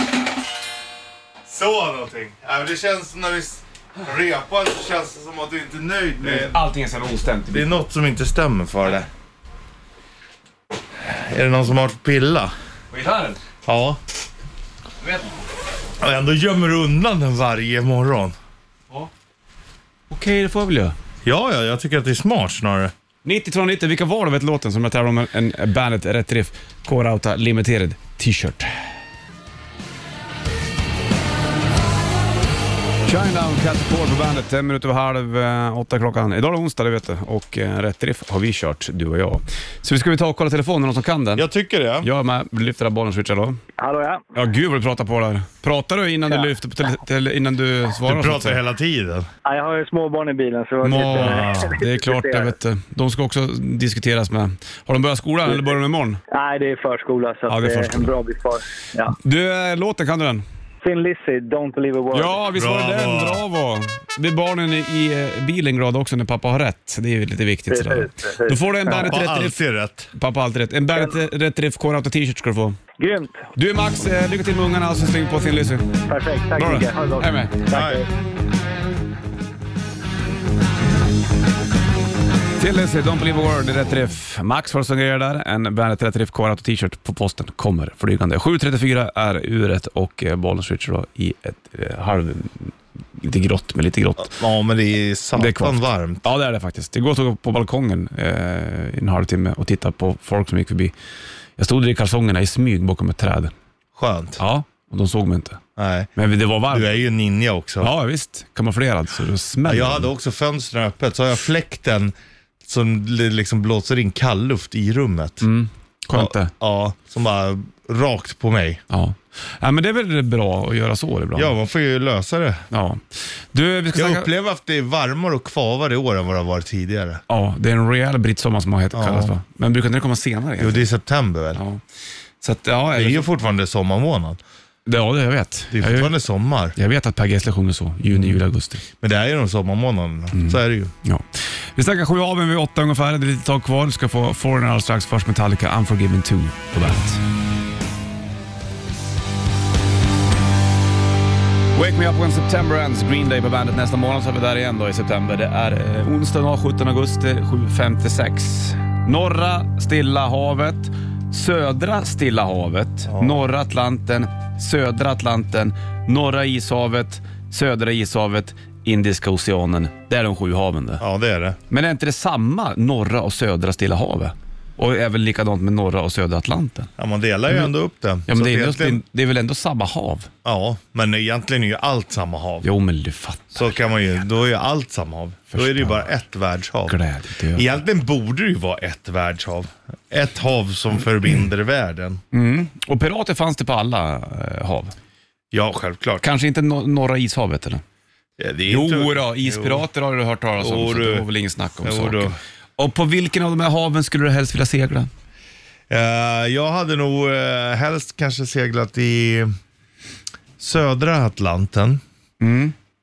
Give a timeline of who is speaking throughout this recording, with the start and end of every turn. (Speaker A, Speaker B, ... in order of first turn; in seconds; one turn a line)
Speaker A: 1.4-6.6
Speaker B: 6.2-7.7
Speaker A: 7.5-9.1
Speaker A: 11.0-12.5
Speaker B: 12.9-13.4
Speaker A: 13.7-14.0
Speaker B: 15.0-15.4
Speaker A: 16.0-18.3
Speaker B: 20.1-20.9
Speaker A: 21.2-22.9
Speaker B: 23.2-28.9
Speaker B: 33.0-41.5
Speaker A: 41.4-42.1
Speaker B: 42.0-43.6
Speaker C: 43.8-44.2
Speaker B: 44.3-48.6
Speaker A: 48.0-49.3
Speaker C: 49.5-52.5
Speaker B: 50.8-56.2
Speaker A: 51.0-51.8
Speaker C: 56.3-59.1
Speaker B: 57.5-58.1
Speaker B: 59.1-60.4
Speaker C: 60.8-62.4
Speaker B: 62.1-69.6
Speaker A: 62.5-63.4
Speaker C: 67.7-69.1
Speaker A: 68.9-70.1
Speaker B: 70.1-72.8
Speaker C: 73.0-73.4
Speaker B: 73.5-76.0
Speaker C: 76.1-78.1
Speaker B: 76.6-77.5
Speaker A: 77.7-78.0
Speaker B: 82.6-94.4
Speaker A: 94.2-96.2
Speaker B: 95.3-100.9
Speaker B: 101.6-103.5
Speaker A: 104.0-104.4
Speaker B: 104.4-105.6
Speaker A: 105.8-106.1
Speaker B: 106.2-107.0
Speaker A: 106.7-107.9
Speaker B: 107.8-110.1
Speaker A: 109.6-112.1
Speaker A: 112.6-115.5
Speaker B: 115.4-116.5
Speaker A: 116.1-118.8
Speaker B: 118.9-121.5
Speaker A: 121.3-122.7
Speaker B: 122.7-124.3
Speaker A: 123.9-127.2
Speaker B: 127.3-130.9
Speaker A: 128.9-129.3
Speaker A: 130.6-131.6
Speaker B: 131.5-131.8
Speaker B: 132.4-133.3
Speaker A: 132.9-134.4
Speaker B: 134.8-136.2
Speaker A: 135.7-136.8
Speaker B: 136.7-138.8
Speaker A: 138.1-138.4
Speaker A: 139.0-140.9
Speaker B: 140.3-147.2
Speaker B: 151.7-171.0
Speaker A: 163.1-163.4
Speaker A: 171.0-171.6
Speaker B: 171.7-176.9
Speaker A: 177.0-179.0
Speaker B: 178.3-180.3
Speaker A: 180.4-182.7
Speaker B: 182.6-183.7
Speaker A: 183.5-187.0
Speaker B: 185.5-186.1
Speaker B: 186.9-187.7
Speaker A: 187.5-192.2
Speaker B: 192.3-194.9
Speaker A: 195.5-196.2
Speaker B: 196.2-197.8
Speaker A: 198.4-199.8
Speaker B: 198.7-205.1
Speaker A: 200.6-201.2
Speaker A: 201.8-202.4
Speaker A: 205.9-209.5
Speaker A: 210.6-212.0
Speaker B: 212.4-212.7